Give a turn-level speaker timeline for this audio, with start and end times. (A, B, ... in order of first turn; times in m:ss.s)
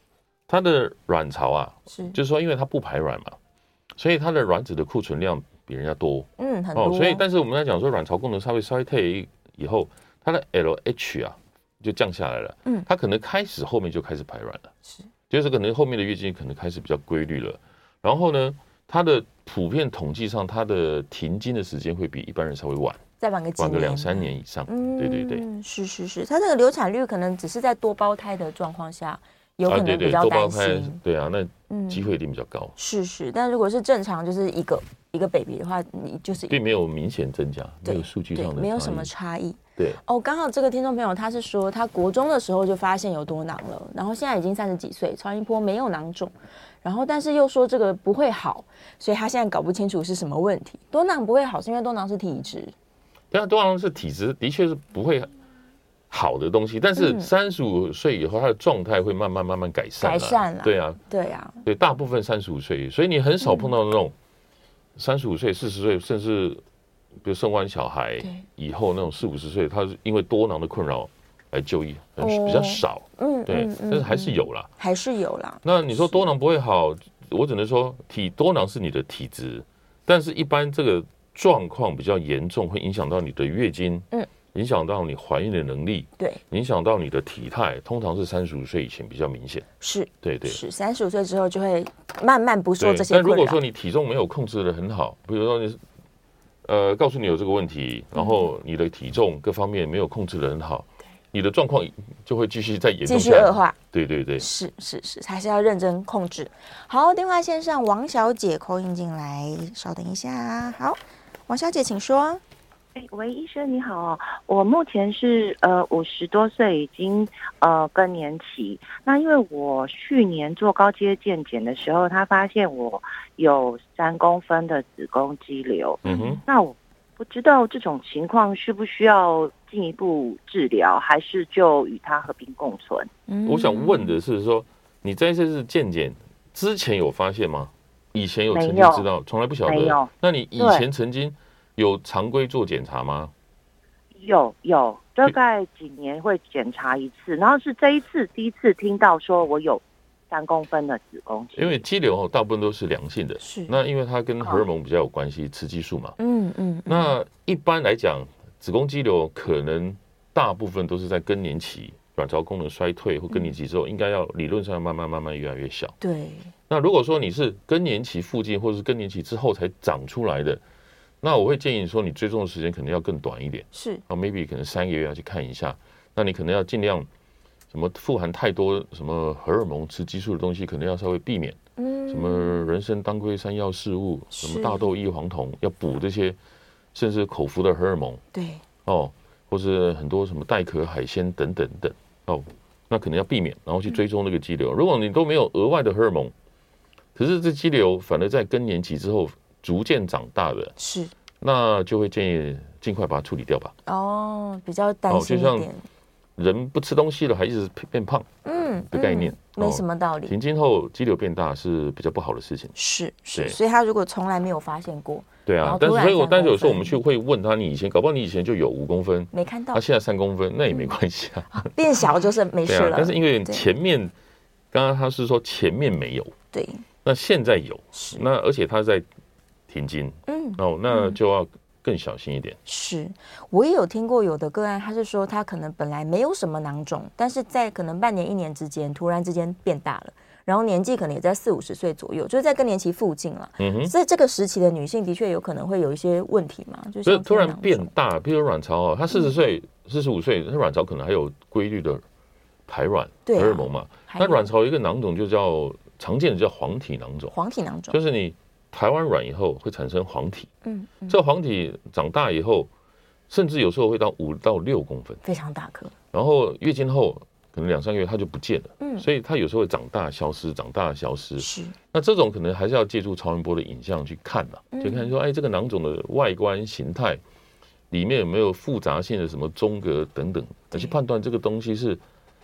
0:00.5-0:03.4 A
0:01.9-0:02.2 B
0:04.0-0:14.7 A
0:06.4-0:07.2 B
0:15.3-0:23.0 A
0:23.2-0:31.0 B
0:23.6-0:25.5 A
0:29.7-0:32.7 A
0:31.7-0:32.1 B
0:32.8-0:36.6 B
0:36.5-0:39.1 A
0:37.8-0:52.7 B
0:53.3-0:55.3 A
0:56.1-1:01.0 A
0:57.0-0:57.3 B
1:00.0-1:01.6 B
1:01.6-1:04.2 A
1:03.4-1:03.7 B
1:05.0-1:06.6 A
1:07.2-1:14.7 A
1:12.2-1:15.6 B
1:15.6-1:29.7 A
1:29.8-1:33.6 B
1:30.2-1:30.6 A
1:32.8-1:35.8 A
1:36.6-1:44.5 A
1:38.2-1:38.4 B
1:43.0-1:43.8 B
1:44.4-1:52.4 B
1:53.0-2:13.1 C
2:06.0-2:06.4 A
2:06.1-2:06.4 B
2:13.3-2:14.2 B
2:13.5-2:23.3 A
2:18.5-2:19.1 C
2:19.6-2:20.8 C
2:24.2-2:31.8 C
2:31.6-2:36.2 A
2:33.4-2:33.7 B
2:36.2-2:37.2 B
2:36.9-2:46.0 A
2:46.0-2:46.5 B
2:46.7-2:50.6 A
2:51.2-2:57.1 A
2:53.7-2:54.0 B
2:57.7-3:06.4 A
3:01.8-3:02.7 B
3:04.3-3:04.9 B
3:06.9-3:08.2 A
3:08.3-3:08.6 B
3:08.9-3:16.3 A
3:17.2-3:20.7 A
3:20.8-3:21.1 B
3:21.4-3:23.7 A
3:23.9-3:25.8 B
3:25.1-3:25.7 A
3:26.4-3:28.3 A
3:28.4-3:30.3 B
3:28.9-3:32.7 A
3:32.8-3:37.0 B
3:35.5-3:41.7 A
3:39.3-3:39.8 B
3:41.5-3:43.7 B
3:42.6-3:44.1 A
3:44.7-3:46.4 A
3:46.5-3:46.8 B
3:47.0-3:49.1 A
3:47.9-3:48.2 B
3:49.7-3:52.6 A
3:50.3-3:51.2 B
3:52.7-4:07.9 B
4:03.6-4:03.9 A
4:07.0-4:12.0 A
4:12.7-4:17.3 A
4:13.3-4:14.5 B
4:17.3-4:18.0 B
4:17.9-4:20.5 A
4:20.6-4:21.2 B
4:21.1-4:22.7 A
4:23.3-4:25.2 A
4:25.2-4:25.9 B
4:26.1-4:37.2 A
4:28.8-4:29.1 B
4:31.4-4:31.8 B
4:34.7-4:35.1 B
4:37.9-4:42.0 A